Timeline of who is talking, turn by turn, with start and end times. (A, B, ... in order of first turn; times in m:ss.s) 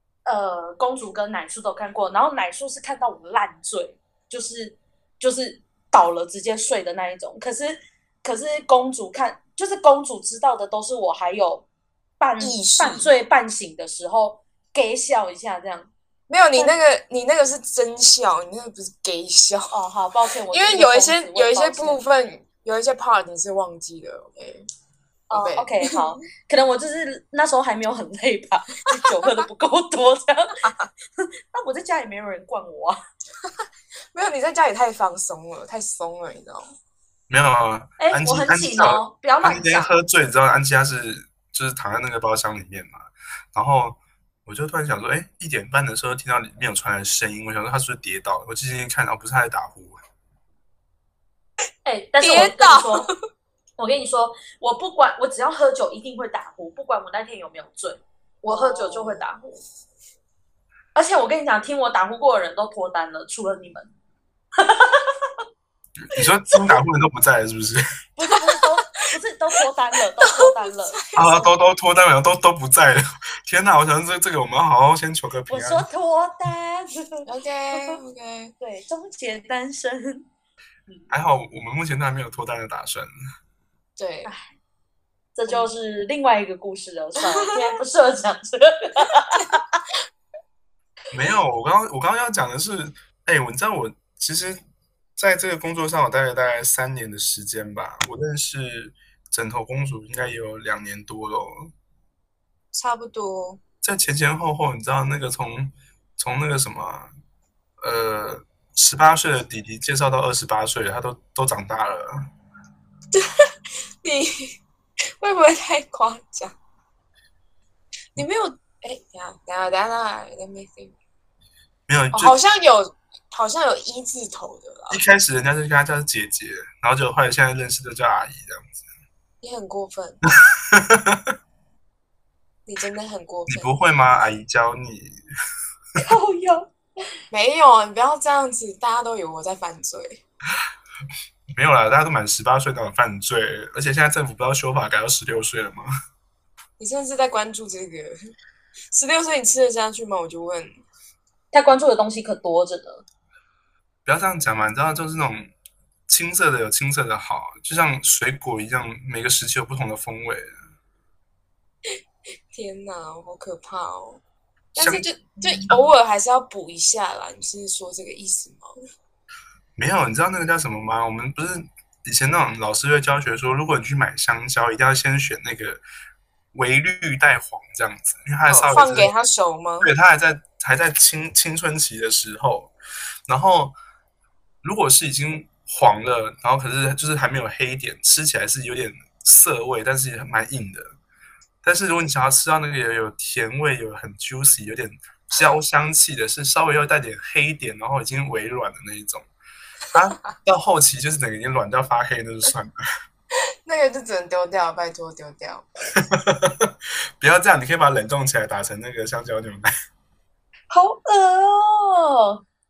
0:00.2-0:11.6 A
0:12.2-0:15.9 A
0:12.4-0:13.1 B
0:16.3-0:19.7 B
0:19.7-0:22.0 A
0:20.5-0:24.7 B
0:25.3-0:30.6 A
0:25.3-0:26.0 B
0:31.5-0:33.0 A
0:34.1-0:36.7 B
0:37.3-0:50.0 C
0:38.0-0:39.9 A
0:51.8-0:53.1 A
0:52.2-0:53.1 B
0:53.8-0:59.4 A
0:58.4-0:59.3 B
1:00.9-1:03.9 A
1:04.6-1:05.0 A
1:06.1-1:07.8 C
1:08.2-1:11.0 A
1:10.4-1:11.5 B
1:11.2-1:15.8 C
1:15.5-1:18.0 A
1:17.2-1:18.5 B
1:18.6-1:20.3 A
1:21.1-1:23.1 C
1:24.0-1:24.3 B
1:24.2-1:24.5 A
1:25.3-1:29.6 A
1:31.1-1:34.6 C
1:35.2-1:41.7 C
1:42.7-1:43.6 B
1:43.8-1:47.1 C
1:47.8-1:52.2 C
1:54.0-1:54.5 B
1:55.2-1:56.5 B
1:58.2-2:01.0 B
2:01.9-2:02.4 C
2:02.1-2:05.0 B
2:04.9-2:08.8 C
2:09.4-2:10.2 B
2:10.7-2:11.3 C
2:12.6-2:13.7 B
2:13.5-2:15.2 C
2:16.0-2:16.7 A
2:17.3-2:20.2 B
2:21.5-2:25.9 C
2:26.8-2:28.1 B
2:28.9-2:30.8 B
2:31.5-2:33.0 A
2:34.0-2:35.5 C
2:36.1-2:40.5 C
2:42.5-2:44.2 B
2:44.7-2:48.7 B
2:44.8-2:45.8 C
2:49.8-2:55.8 C
2:56.5-2:59.1 C
2:58.4-2:59.9 B
2:59.8-3:02.7 C
3:03.3-3:03.7 C
3:04.6-3:10.9 C
3:11.6-3:19.2 C
3:19.9-3:22.7 C
3:23.6-3:25.6 B
3:26.0-3:29.7 C
3:30.7-3:32.4 A